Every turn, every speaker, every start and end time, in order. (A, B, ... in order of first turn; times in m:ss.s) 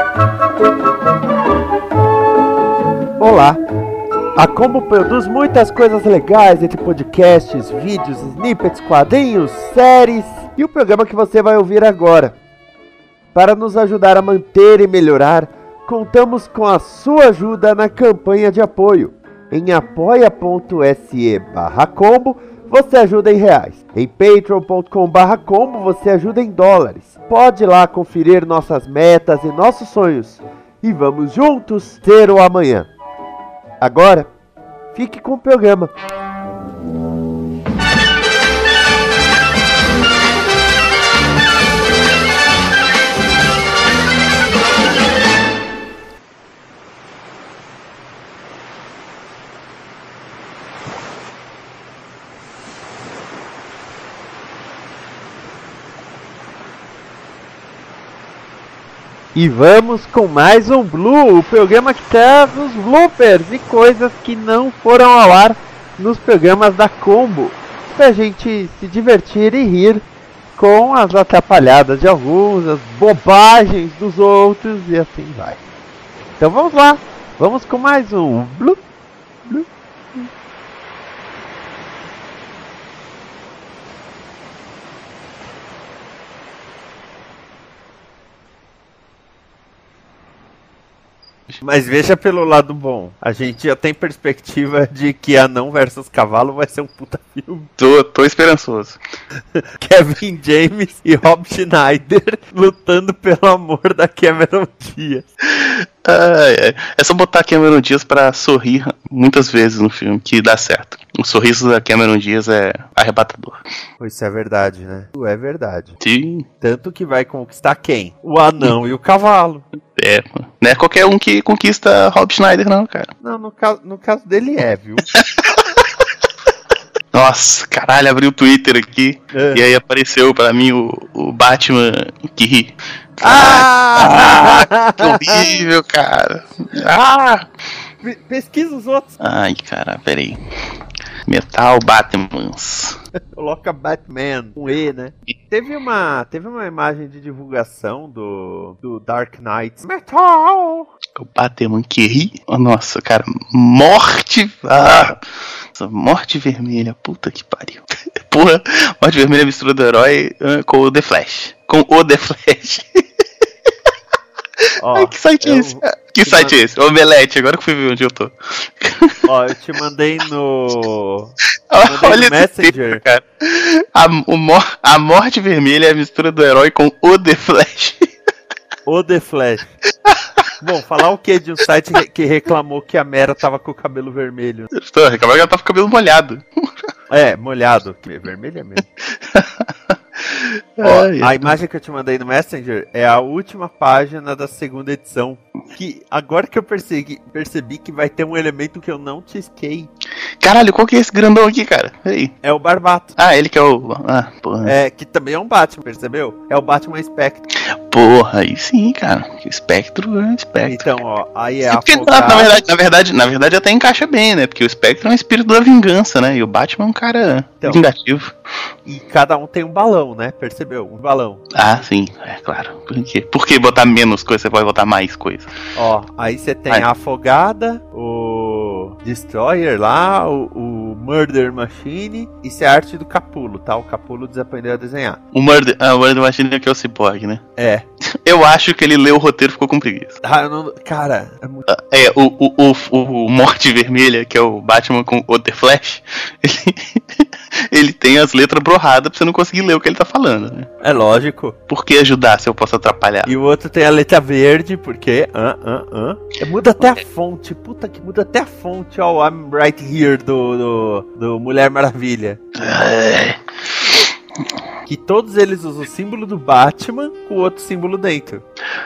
0:03.2-0:03.6 A
0:04.4-0:12.3 A
0:13.3-0:32.9 A
0:33.8-0:34.3 A
0:34.9-0:35.9 A
0:59.3-1:10.0 A
1:10.6-1:15.6 A
1:16.4-1:18.8 A
1:19.4-1:20.2 A
1:31.6-1:37.7 A
1:37.8-1:39.0 B
1:39.6-1:45.3 A
1:45.5-1:53.6 B
1:54.0-1:56.0 A
1:56.0-1:56.4 B
1:56.6-1:59.6 A
1:59.9-2:03.1 B
2:03.2-2:05.0 A
2:05.1-2:06.0 B
2:07.1-2:17.5 B
2:09.3-2:09.6 A
2:13.2-2:15.6 A
2:18.0-2:19.1 A
2:19.2-2:20.4 B
2:21.2-2:23.0 B
2:23.3-2:30.9 A
2:31.1-2:43.0 B
2:44.6-2:49.3 B
2:44.8-2:46.6 A
2:49.2-2:51.3 A
2:51.7-2:58.1 B
2:51.8-2:53.0 A
2:58.8-2:59.7 A
3:00.0-3:00.5 B
3:00.6-3:04.7 A
3:04.7-3:06.7 B
3:07.1-3:08.9 A
3:09.0-3:11.5 B
3:10.8-3:19.9 A
3:20.4-3:22.3 B
3:22.4-3:23.1 A
3:23.2-3:24.7 B
3:24.6-3:27.4 A
3:27.6-3:31.0 B
3:30.6-3:32.6 A
3:31.6-3:38.3 B
3:38.8-3:41.4 A
3:41.5-3:45.5 B
3:45.7-3:55.2 A
3:55.3-3:57.4 B
3:57.6-3:57.8 A
3:58.1-4:00.2 B
4:00.2-4:01.7 A
4:01.7-4:10.7 B
4:10.8-4:11.6 A
4:11.7-4:13.3 B
4:13.2-4:22.4 A
4:22.5-4:23.4 B
4:24.8-4:28.4 A